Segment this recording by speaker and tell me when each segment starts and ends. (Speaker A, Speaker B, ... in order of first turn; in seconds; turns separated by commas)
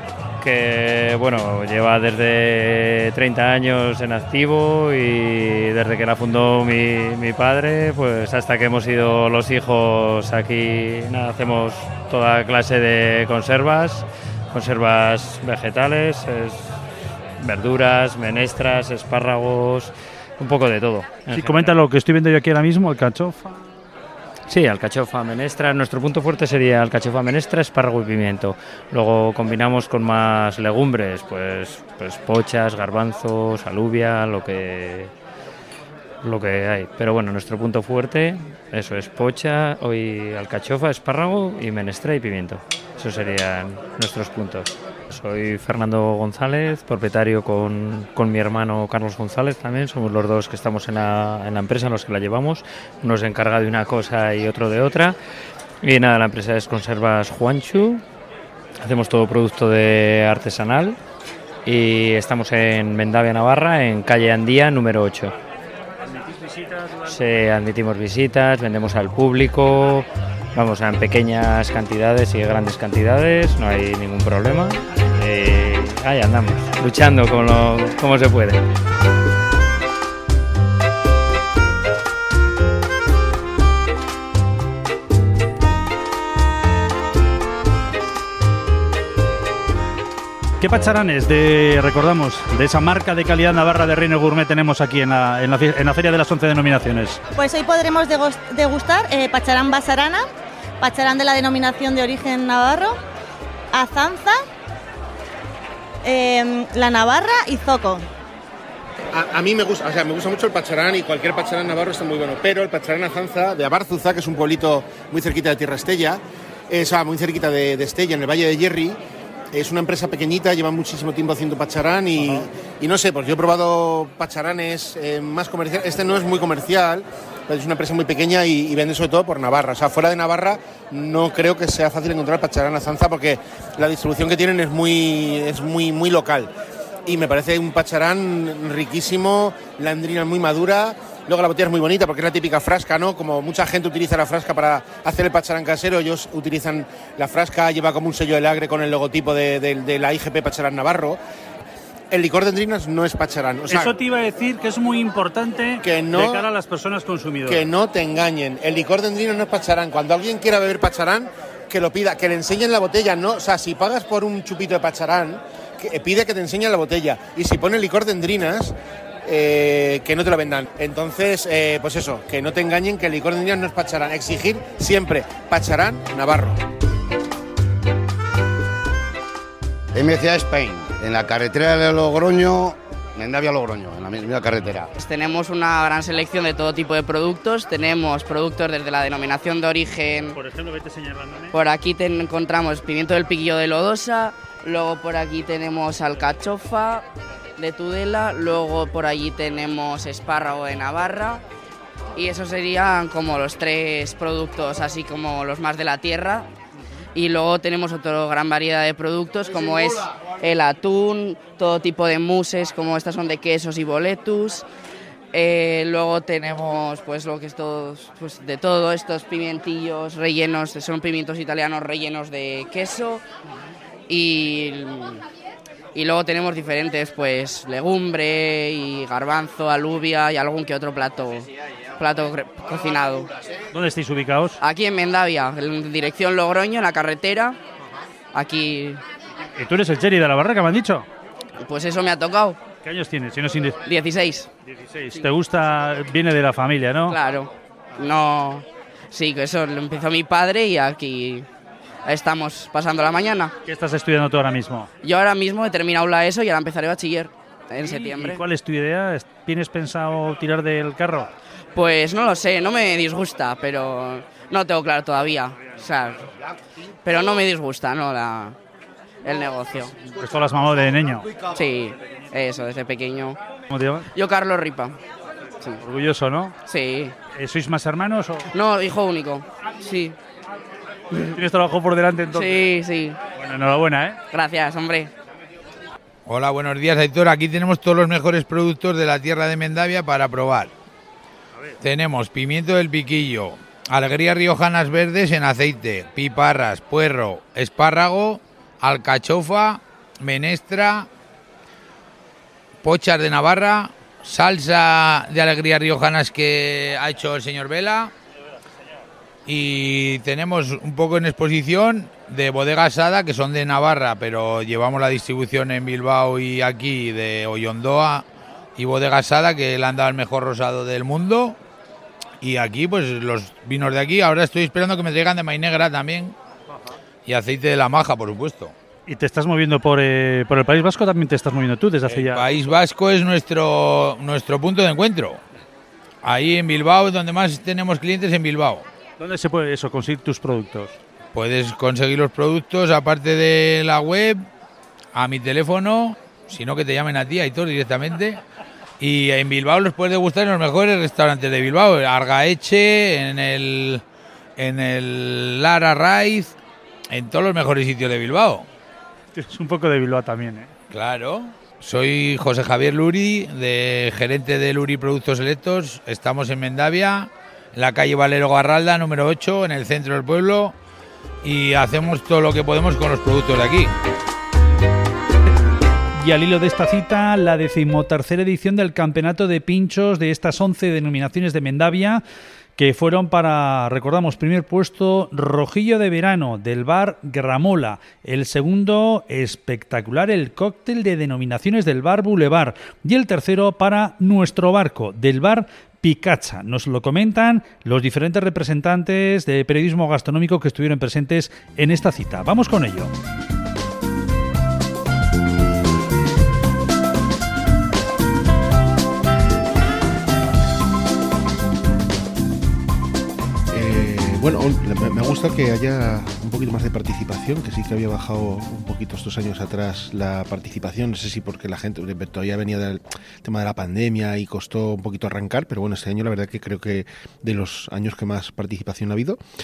Speaker A: 0.4-16.8, Speaker A: 17.4-21.8, Speaker B: 21.3-23.6, Speaker A: 24.5-35.1, Speaker A: 36.2-55.2, Speaker A: 55.8-58.0, Speaker A: 58.8-61.0, Speaker A: 61.6-65.3, Speaker B: 66.1-67.2, Speaker A: 67.1-78.6, Speaker B: 90.6-97.2, Speaker C: 97.3-100.2, Speaker C: 100.8-103.0, Speaker C: 103.7-104.4, Speaker C: 106.0-108.1, Speaker D: 109.1-119.0, Speaker D: 119.5-136.5, Speaker D: 137.0-151.2, Speaker D: 152.1-153.9, Speaker B: 153.7-157.7, Speaker D: 155.8-156.4, Speaker D: 157.5-176.6, Speaker E: 179.9-184.9, Speaker F: 185.0-190.4, Speaker B: 190.3-191.5, Speaker F: 191.5-197.0, Speaker F: 197.6-201.4, Speaker F: 202.2-206.5, Speaker F: 207.1-214.7, Speaker F: 215.3-223.2, Speaker F: 224.1-225.2, Speaker F: 225.9-233.3, Speaker B: 233.7-234.6, Speaker F: 234.6-237.6, Speaker F: 238.3-239.0, Speaker B: 239.6-241.1, Speaker F: 241.6-242.6, Speaker B: 242.8-243.8, Speaker F: 243.8-244.5, Speaker B: 244.7-247.2, Speaker F: 247.1-251.5, Speaker F: 252.0-253.5, Speaker B: 253.6-254.9, Speaker F: 255.0-258.4, Speaker B: 257.8-261.3, Speaker F: 261.7-266.3, Speaker F: 267.0-268.6, Speaker F: 269.2-269.9, Speaker B: 270.1-271.3, Speaker F: 271.4-273.4, Speaker B: 273.7-274.1, Speaker F: 274.1-275.0, Speaker B: 275.8-276.6, Speaker F: 276.6-277.1, Speaker B: 277.3-278.5, Speaker F: 278.5-280.1, Speaker B: 281.1-282.6, Speaker F: 282.3-283.2, Speaker B: 283.3-284.2, Speaker F: 284.3-285.1, Speaker G: 286.2-290.7, Speaker G: 291.8-301.1, Speaker G: 302.8-308.1, Speaker G: 309.4-318.2, Speaker G: 318.8-321.6, Speaker G: 322.4-326.3, Speaker G: 327.2-328.7, Speaker B: 329.1-332.5, Speaker G: 332.1-335.4, Speaker G: 336.2-338.8, Speaker B: 339.2-340.9, Speaker G: 341.3-344.4, Speaker G: 345.1-348.4, Speaker G: 349.0-354.0, Speaker G: 354.6-356.6, Speaker G: 357.1-358.7, Speaker B: 359.3-360.7, Speaker G: 360.9-370.8, Speaker G: 371.4-373.9, Speaker B: 376.1-382.2, Speaker B: 382.8-403.1, Speaker H: 413.7-429.4